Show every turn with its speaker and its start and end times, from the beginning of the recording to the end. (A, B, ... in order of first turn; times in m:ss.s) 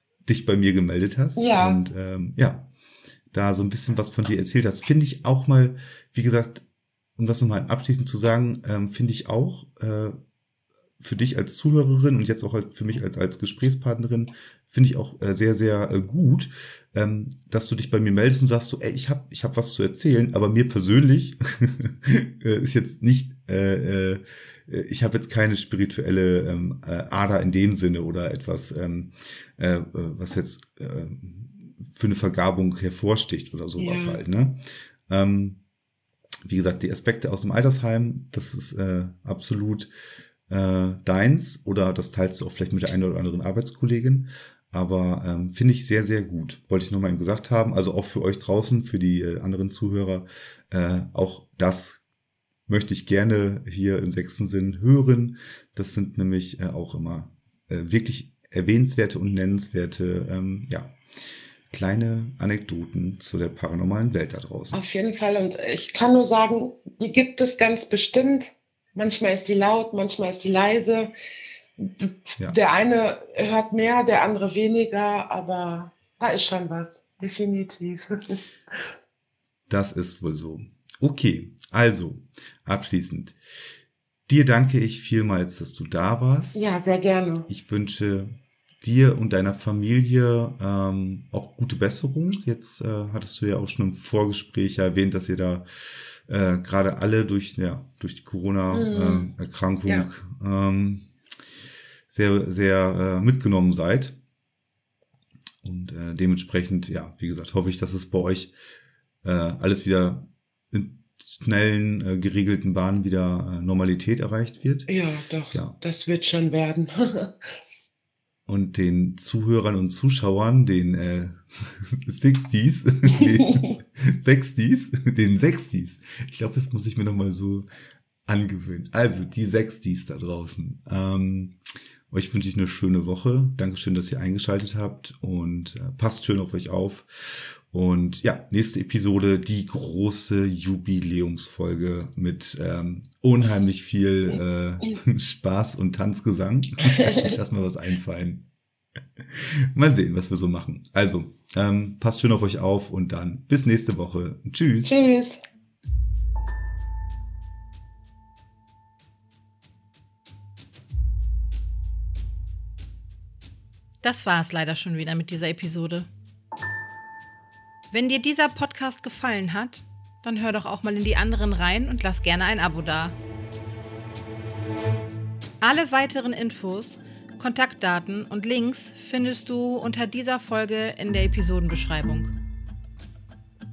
0:00.2-0:02.6 A
0:01.4-0:01.8 B
0:03.3-0:06.6 A
0:07.2-0:10.1 A
0:11.0-0:34.6 A
0:33.8-0:34.2 B
0:35.1-0:35.6 A
0:36.4-0:39.9 A
0:40.5-0:52.0 A
0:52.7-1:00.9 A
1:01.7-1:04.8 A
1:04.7-1:11.1 B
1:11.8-1:18.9 B
1:19.7-1:23.4 A
1:24.3-1:26.7 A
1:26.5-1:27.5 B
1:27.5-1:35.6 A
1:36.3-1:41.0 A
1:38.7-1:39.3 B
1:42.1-1:44.1 A
1:45.6-1:48.5 A
1:49.2-1:54.9 A
1:54.9-1:57.5 B
1:58.5-2:07.7 A
2:03.1-2:03.8 B
2:08.3-2:11.5 A
2:12.1-2:28.4 A
2:26.8-2:27.3 B
2:29.2-2:35.0 A
2:34.8-2:35.4 B
2:44.0-2:46.1 C
2:47.9-2:53.2 C
2:55.6-3:02.3 C